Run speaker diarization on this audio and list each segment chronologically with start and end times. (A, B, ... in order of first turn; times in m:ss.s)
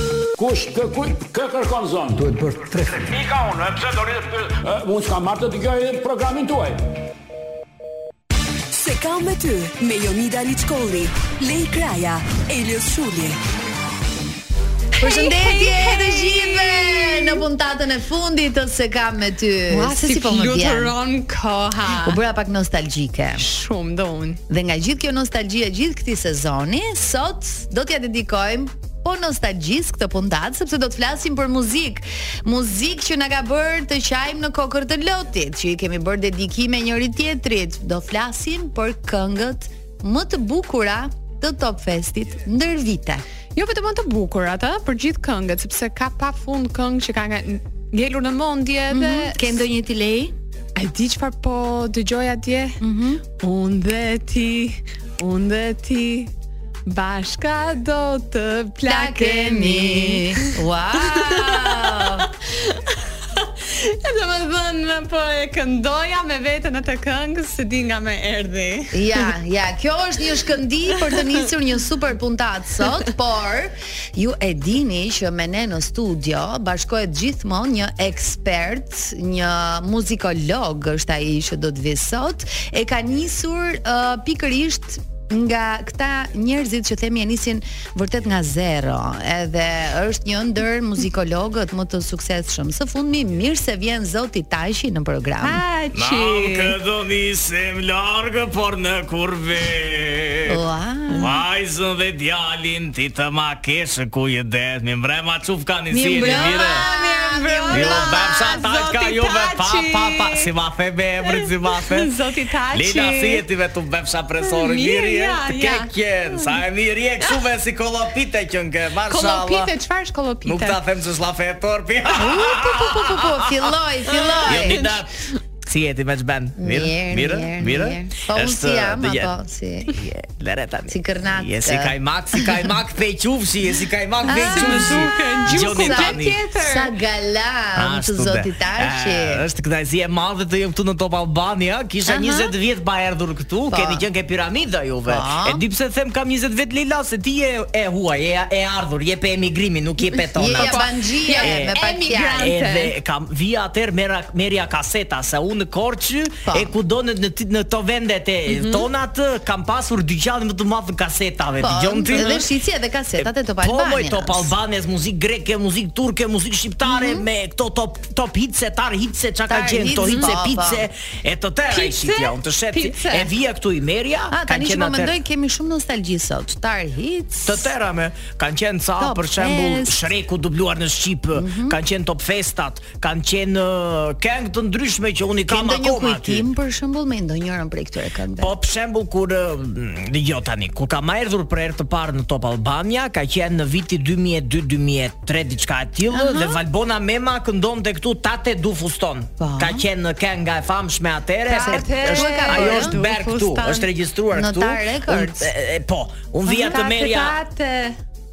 0:00.4-0:06.8 A
0:08.7-0:13.4 B
0:15.0-0:17.4 C
0:15.0-0:20.9 D
0:19.7-0:22.2 C
0:22.0-0:23.4 D
0:23.4-0:24.4 C
0:24.5-0:43.2 D
0:43.6-0:49.5 C
0:48.9-0:50.3 D
0:50.8-0:52.8 C
0:52.8-0:53.2 D
0:53.4-0:56.3 C
0:56.9-1:09.3 C
0:58.9-1:02.3 D
1:08.9-1:35.6 D
1:35.4-1:36.8 C
1:35.9-1:40.6 E
1:40.5-1:41.3 D
1:41.1-1:46.8 E
1:45.9-1:48.5 D
1:46.2-1:50.5 C
1:47.7-1:52.1 E
1:51.3-1:53.4 C
1:52.7-1:59.7 E
1:54.4-1:56.6 C
1:59.1-2:00.8 C
2:00.4-2:03.7 E
2:02.2-2:04.9 D
2:02.3-2:03.1 C
2:04.1-2:05.0 C
2:04.4-2:05.1 E
2:05.6-2:09.3 E
2:06.6-2:10.0 D
2:09.9-2:16.4 E
2:10.9-2:12.0 D
2:14.3-2:16.9 C
2:14.3-2:19.5 D
2:17.8-2:30.9 E
2:22.1-2:22.5 D
2:23.7-2:24.0 D
2:25.1-2:25.6 D
2:30.4-2:32.5 D
2:30.5-2:32.9 C
2:31.4-2:31.8 E
2:32.4-2:42.5 E
2:36.5-2:36.7 D
2:38.5-2:38.9 C
2:41.6-2:44.5 D
2:42.1-2:42.4 C
2:43.2-2:55.2 E
2:46.9-2:47.3 D
2:49.5-2:50.9 D
2:50.0-2:50.3 C
2:51.7-2:53.3 C
2:54.3-2:57.6 D
2:57.5-3:06.5 E
2:59.0-3:00.0 D
3:01.3-3:01.8 D
3:05.5-3:08.5 D
3:08.4-3:27.4 E
3:16.1-3:16.6 D
3:19.4-3:19.8 D
3:21.5-3:23.9 C
3:21.6-3:22.9 D
3:24.3-3:25.5 D
3:26.5-3:28.0 C